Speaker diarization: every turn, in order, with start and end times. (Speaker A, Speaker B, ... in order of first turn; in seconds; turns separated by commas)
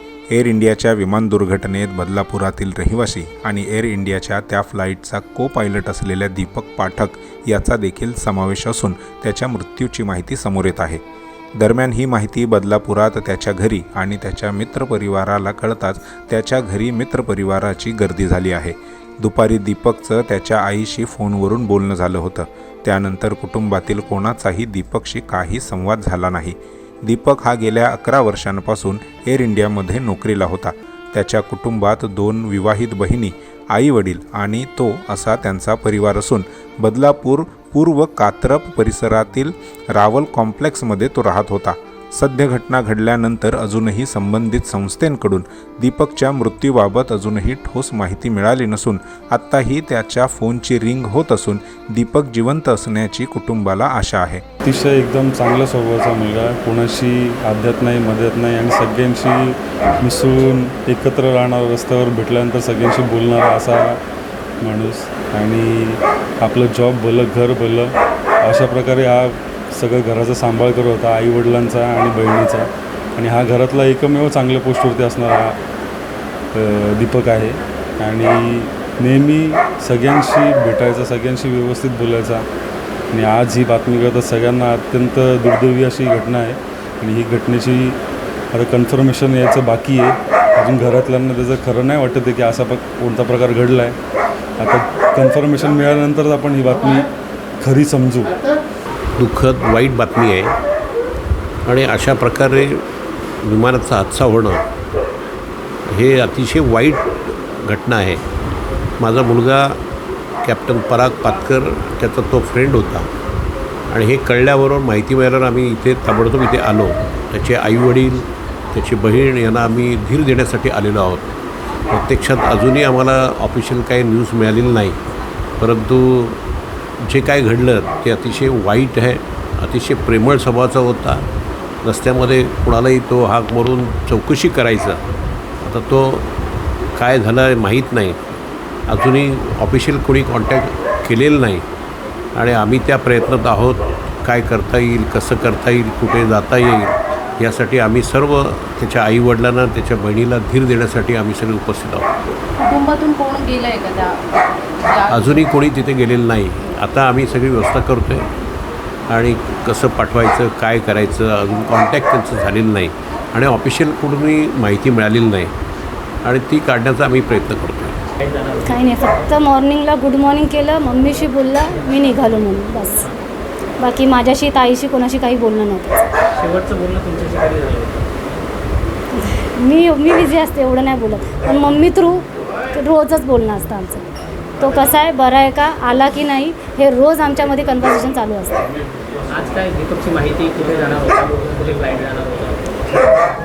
Speaker A: 0.3-11.0, Speaker A: 11.6-54.4, Speaker B: 54.6-64.0, Speaker B: 64.6-75.6, Speaker B: 76.5-82.5, Speaker B: 83.1-88.0, Speaker B: 88.5-94.0, Speaker B: 94.6-97.1, Speaker B: 97.6-98.3, Speaker C: 99.2-100.5, Speaker C: 101.6-102.8, Speaker C: 103.4-104.6, Speaker C: 105.9-108.2, Speaker C: 109.0-109.8, Speaker C: 110.4-113.1, Speaker C: 113.9-121.3, Speaker C: 121.9-125.0, Speaker C: 125.6-126.4, Speaker C: 127.0-131.2, Speaker C: 131.8-135.0, Speaker C: 135.6-136.3, Speaker C: 136.9-138.2, Speaker C: 138.9-141.7, Speaker C: 142.3-152.1, Speaker D: 152.6-155.4, Speaker C: 155.1-158.3, Speaker C: 159.1-165.5, Speaker C: 166.2-168.0, Speaker E: 168.3-168.7, Speaker F: 168.6-173.1, Speaker F: 173.8-176.1, Speaker E: 176.3-178.1, Speaker F: 179.1-184.1, Speaker F: 184.6-188.7, Speaker E: 189.3-192.6